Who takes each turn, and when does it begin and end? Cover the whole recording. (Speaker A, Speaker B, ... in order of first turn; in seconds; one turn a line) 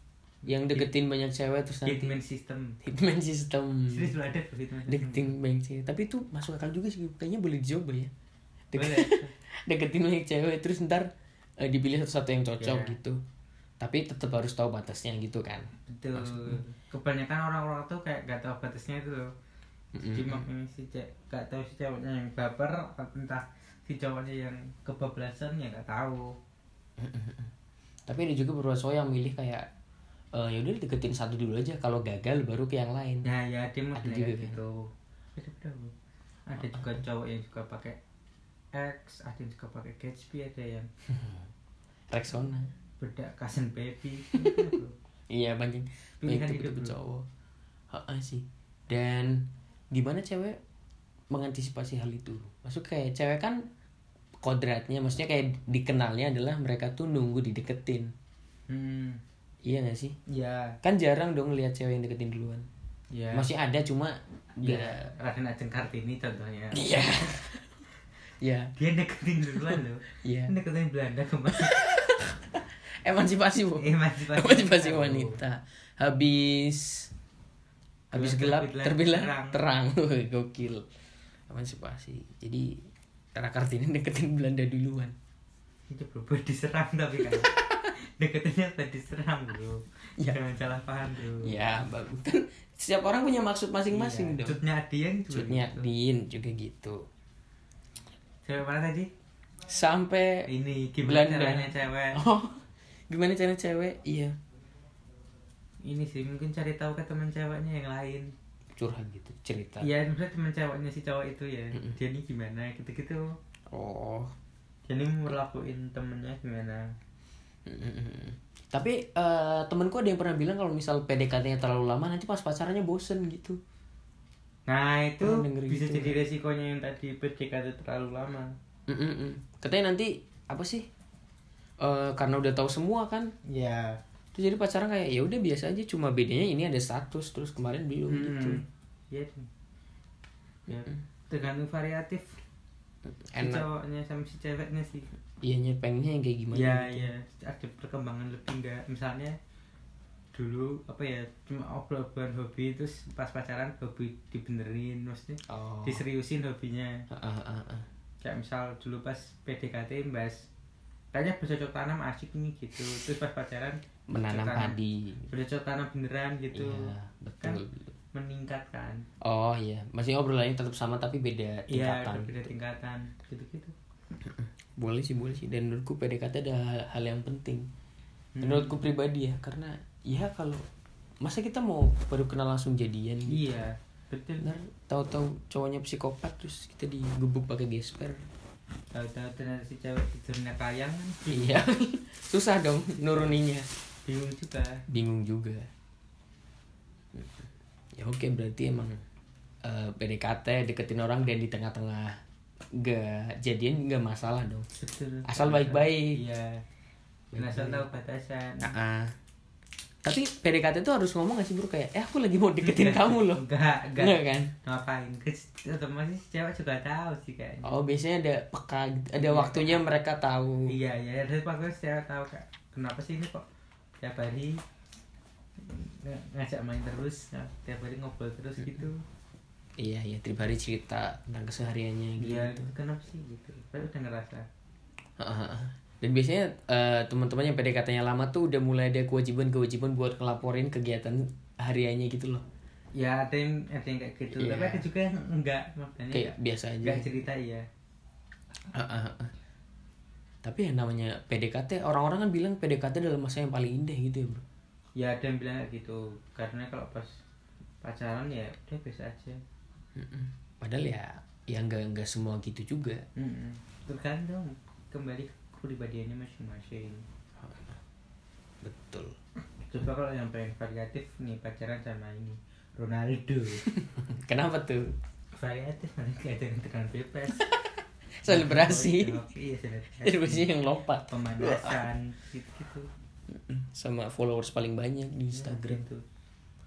Speaker A: 0.4-0.9
Speaker B: 0.5-2.2
Speaker A: 1.8-2.8
Speaker B: 2.8-4.2
Speaker A: 3.9-5.3
Speaker B: 4.9-8.1
Speaker B: 8.7-13.2
Speaker A: 8.7-9.3
Speaker A: 12.6-13.0
Speaker B: 13.8-16.6
Speaker A: 15.9-19.3
Speaker B: 19.9-20.4
Speaker A: 20.0-26.3
Speaker B: 27.0-27.5
Speaker B: 28.1-29.7
Speaker B: 30.3-33.3
Speaker A: 33.2-35.9
Speaker B: 34.0-34.6
Speaker A: 36.5-38.0
Speaker A: 38.7-40.9
Speaker B: 41.1-41.4
Speaker B: 42.1-42.7
Speaker A: 43.0-44.9
Speaker B: 45.3-47.2
Speaker A: 46.2-47.0
Speaker B: 47.9-50.6
Speaker B: 51.3-53.6
Speaker B: 54.4-58.1
Speaker A: 58.7-59.2
Speaker B: 59.6-60.1
Speaker A: 60.3-60.8
Speaker B: 60.8-62.7
Speaker A: 63.1-63.5
Speaker B: 63.3-65.0
Speaker A: 64.6-66.9
Speaker B: 66.7-67.7
Speaker B: 68.4-68.7
Speaker A: 68.8-71.8
Speaker B: 69.5-70.5
Speaker B: 71.5-77.1
Speaker A: 73.7-75.4
Speaker A: 78.1-79.6
Speaker B: 78.1-80.8
Speaker B: 81.5-82.8
Speaker B: 83.3-85.1
Speaker A: 85.9-87.5
Speaker B: 87.3-87.8
Speaker A: 88.2-91.7
Speaker B: 91.4-94.6
Speaker A: 93.9-95.8
Speaker B: 95.3-97.0
Speaker A: 98.4-99.1
Speaker B: 99.7-100.5
Speaker A: 100.5-102.2
Speaker B: 101.0-104.3
Speaker A: 105.8-108.3
Speaker B: 108.8-109.9
Speaker A: 109.8-113.3
Speaker B: 113.7-114.3
Speaker A: 114.9-116.8
Speaker B: 117.7-123.6
Speaker A: 124.7-128.5
Speaker B: 125.2-126.2
Speaker B: 128.9-130.9
Speaker B: 131.8-133.3
Speaker A: 133.4-134.0
Speaker B: 134.3-138.6
Speaker A: 138.1-139.5
Speaker A: 140.7-142.3
Speaker B: 143.3-143.7
Speaker A: 143.3-145.1
Speaker B: 145.4-147.1
Speaker A: 146.5-149.4
Speaker A: 150.3-156.9
Speaker B: 155.5-156.0
Speaker B: 157.1-157.8
Speaker A: 158.2-160.4
Speaker A: 161.1-164.8
Speaker B: 164.1-165.3
Speaker A: 165.3-166.9
Speaker B: 166.5-167.9
Speaker A: 168.1-169.0
Speaker B: 169.2-172.5
Speaker A: 171.7-173.7
Speaker B: 174.2-177.7
Speaker A: 178.3-178.8
Speaker B: 178.4-180.6
Speaker B: 181.2-183.4
Speaker A: 183.3-184.5
Speaker B: 184.4-188.2
Speaker A: 188.9-191.6
Speaker B: 191.3-193.7
Speaker A: 194.1-194.8
Speaker B: 194.9-195.7
Speaker B: 197.1-199.0
Speaker B: 199.6-202.2
Speaker B: 202.7-204.7
Speaker A: 204.8-206.6
Speaker B: 205.3-206.2
Speaker B: 207.3-207.9
Speaker A: 207.3-208.7
Speaker B: 208.6-209.2
Speaker B: 210.0-213.4
Speaker A: 212.6-217.7
Speaker B: 214.0-214.5
Speaker B: 217.6-220.8
Speaker A: 219.1-219.8
Speaker A: 220.7-223.4
Speaker A: 224.0-224.6
Speaker A: 225.6-229.0
Speaker B: 229.8-232.7
Speaker A: 232.2-234.4
Speaker B: 235.2-242.4
Speaker A: 242.9-247.6
Speaker B: 244.3-244.9
Speaker B: 246.1-247.1
Speaker B: 248.7-249.3
Speaker B: 250.4-254.4
Speaker A: 254.9-257.1
Speaker A: 257.8-259.4
Speaker B: 259.9-263.0
Speaker A: 263.1-267.0
Speaker B: 267.4-267.8
Speaker B: 268.6-269.1
Speaker A: 269.6-273.6
Speaker B: 273.6-274.9
Speaker A: 275.3-277.5
Speaker B: 277.4-279.2
Speaker A: 278.2-280.5
Speaker B: 280.0-281.9
Speaker A: 281.1-282.9
Speaker B: 283.3-285.8
Speaker A: 285.3-286.0